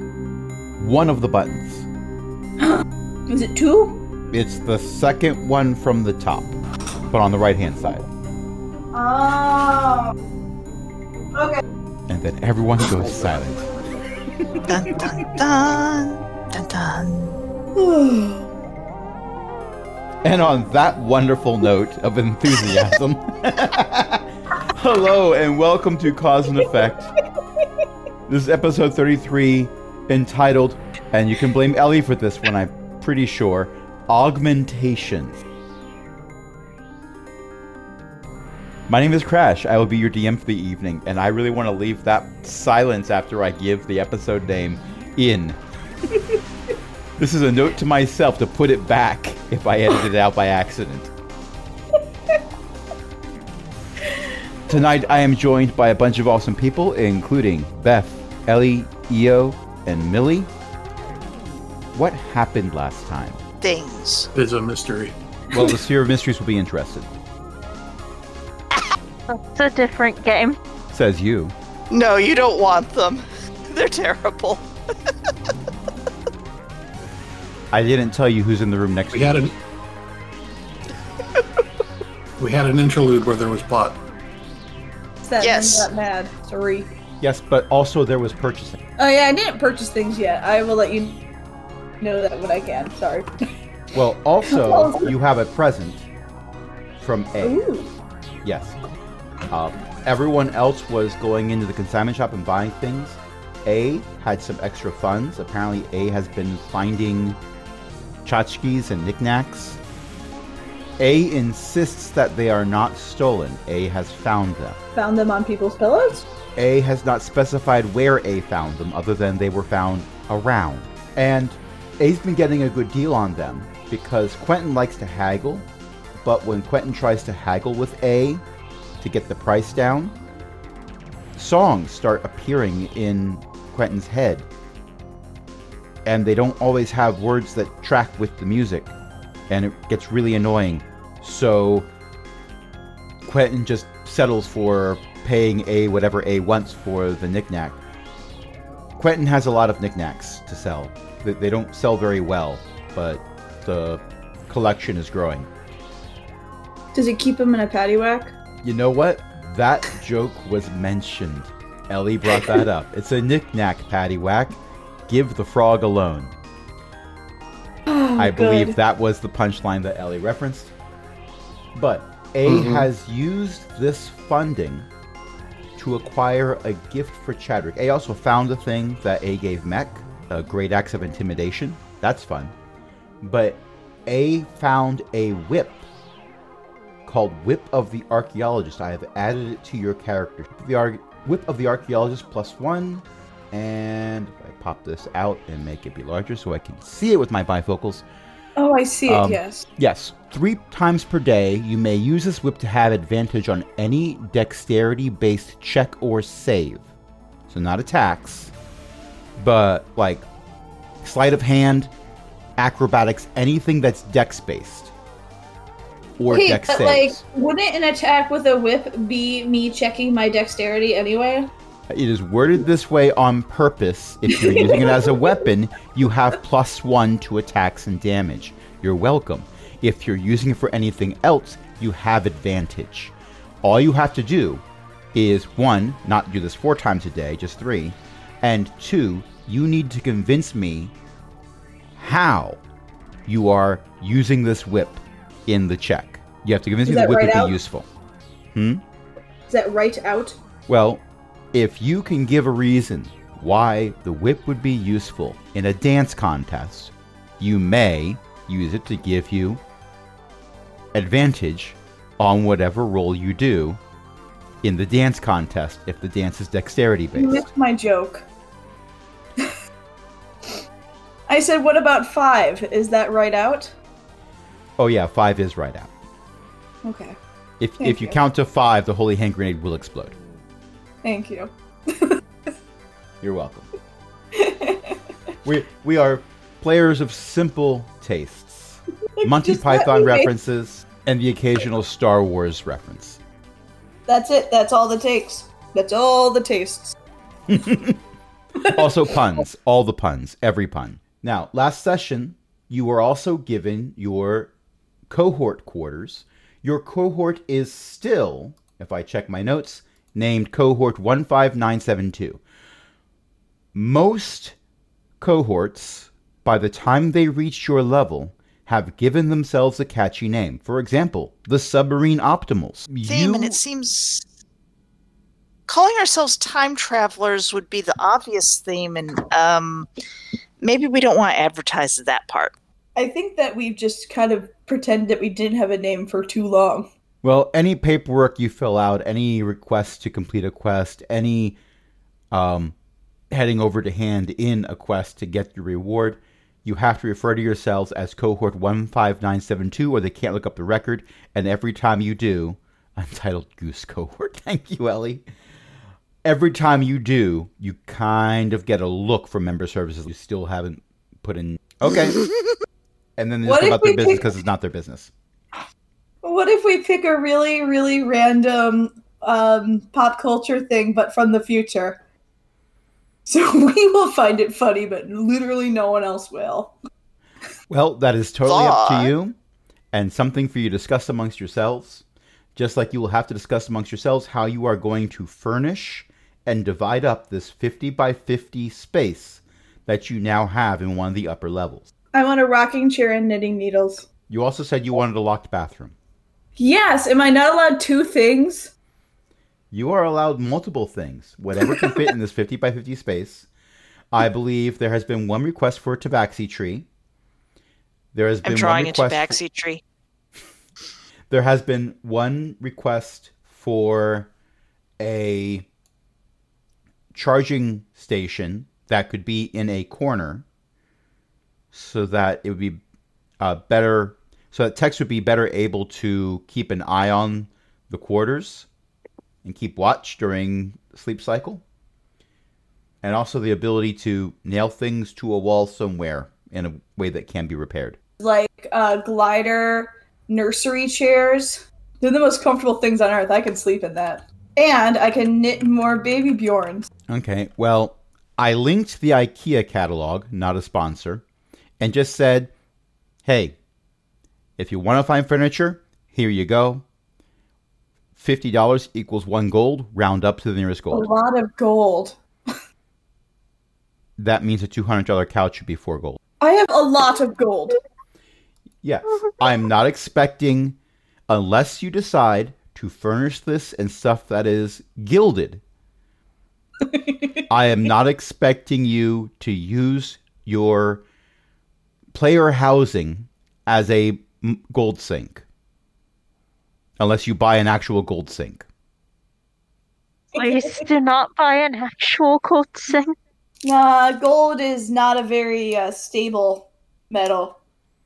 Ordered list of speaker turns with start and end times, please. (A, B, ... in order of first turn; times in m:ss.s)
0:00.8-0:01.9 A
0:02.6-0:04.0 B
0:04.3-0:06.5 A
0:07.1-0:08.1 A
0:08.9-0:10.1 B
0:11.4-0:11.6 B
0:12.1-0:13.7 A
0:14.7-0:17.3 C
0:17.8-0:18.5 B
0:20.2-0:27.1 A
0:28.3-0:35.4 A
0:38.9-0:45.6 A
0:47.2-0:51.1 A
0:54.7-1:00.5 A
1:01.9-1:03.4 A
1:03.6-1:04.3 C
1:04.3-1:05.1 D
1:05.5-1:07.1 A
1:09.3-1:10.6 E
1:10.9-1:11.5 A
1:11.9-1:14.7 C
1:17.7-1:19.5 A
1:19.1-1:19.5 D
1:22.4-1:24.0 D
1:25.2-1:26.9 B
1:25.4-1:25.9 C
1:27.2-1:28.8 A
1:29.0-1:31.3 B
1:32.0-1:33.3 B
1:33.9-1:36.0 A
1:34.5-1:35.1 B
1:37.0-1:37.6 A
1:37.4-1:37.9 B
1:38.4-1:38.8 A
1:39.5-1:47.4 A
1:48.2-1:49.8 A
1:51.0-1:54.8 A
1:55.0-1:56.3 B
1:56.6-2:05.7 A
2:06.2-2:08.4 A
2:09.0-2:10.2 A
2:11.4-2:14.5 A
2:16.0-2:18.9 A
2:19.5-2:21.9 A
2:23.2-2:27.8 A
2:29.0-2:35.5 A
2:36.9-2:38.4 B
2:38.6-2:46.4 A
2:47.9-2:48.8 B
2:48.2-2:50.7 A
2:51.7-2:54.9 A
2:52.5-2:52.9 D
2:55.8-3:02.5 A
3:03.2-3:05.9 A
3:07.1-3:18.0 A
3:18.6-3:19.7 B
3:19.1-3:26.9 A
3:27.5-3:28.5 A
3:29.4-3:30.2 A
3:31.0-3:31.9 A
3:32.6-3:34.9 A
3:36.2-3:37.2 A
3:36.3-3:41.5 B
3:41.9-3:54.6 A
3:44.3-3:45.4 B
3:55.1-4:00.9 A
4:02.0-4:02.6 A
4:03.3-4:07.9 A
4:06.9-4:07.6 B
4:08.5-4:08.8 A
4:09.5-4:10.4 B
4:10.7-4:19.6 A
4:20.9-4:23.8 A
4:24.6-4:27.4 A
4:27.2-4:28.3 B
4:31.3-4:33.7 B
4:34.8-4:35.9 A
4:36.8-4:37.2 B
4:37.6-4:40.1 A
4:37.8-4:38.2 B
4:41.0-4:42.2 B
4:43.2-4:43.7 A
4:44.4-4:45.0 B
4:45.4-4:53.2 A
4:49.2-4:50.3 B
4:54.1-4:57.0 B
4:57.5-4:58.0 A
4:58.6-4:58.9 B
4:58.7-5:04.5 A
5:05.1-5:12.4 A
5:13.7-5:14.6 A
5:15.2-5:23.6 A
5:23.0-5:24.3 C
5:25.7-5:29.9 C
5:30.6-5:32.6 C
5:33.0-5:36.9 B
5:37.2-5:41.6 A
5:42.3-5:42.7 A
5:43.3-5:55.2 A
5:56.2-6:02.2 A
6:03.2-6:05.1 A
6:03.4-6:04.2 B
6:06.2-6:12.0 B
6:13.3-6:16.8 B
6:17.7-6:19.4 A
6:18.5-6:19.1 C
6:19.9-6:22.0 A
6:22.6-6:31.9 A
6:32.1-6:34.1 B
6:34.3-6:36.0 A
6:36.6-6:38.7 B
6:39.7-6:43.5 A
6:41.7-6:42.1 B
6:44.1-6:46.9 A
6:48.1-6:49.4 A
6:48.4-6:49.8 C
6:51.3-6:54.3 A
6:55.0-6:55.7 A
6:57.1-7:00.4 A
7:01.7-7:02.8 A
7:03.4-7:08.7 A
7:09.4-7:11.6 A
7:13.0-7:18.0 A
7:18.2-7:26.9 B
7:27.1-7:31.2 A
7:31.8-7:32.5 A
7:33.2-7:33.6 A
7:34.6-7:36.8 A
7:38.2-7:41.1 A
7:40.9-7:42.2 B
7:44.2-7:46.2 A
7:46.4-7:47.8 B
7:48.8-7:50.8 A
7:51.3-7:55.6 A
7:56.8-7:57.4 B
7:57.5-8:01.0 A
8:02.1-8:05.4 A
8:07.0-8:08.6 A
8:10.3-8:10.8 B
8:10.4-8:13.2 E
8:13.6-8:17.6 B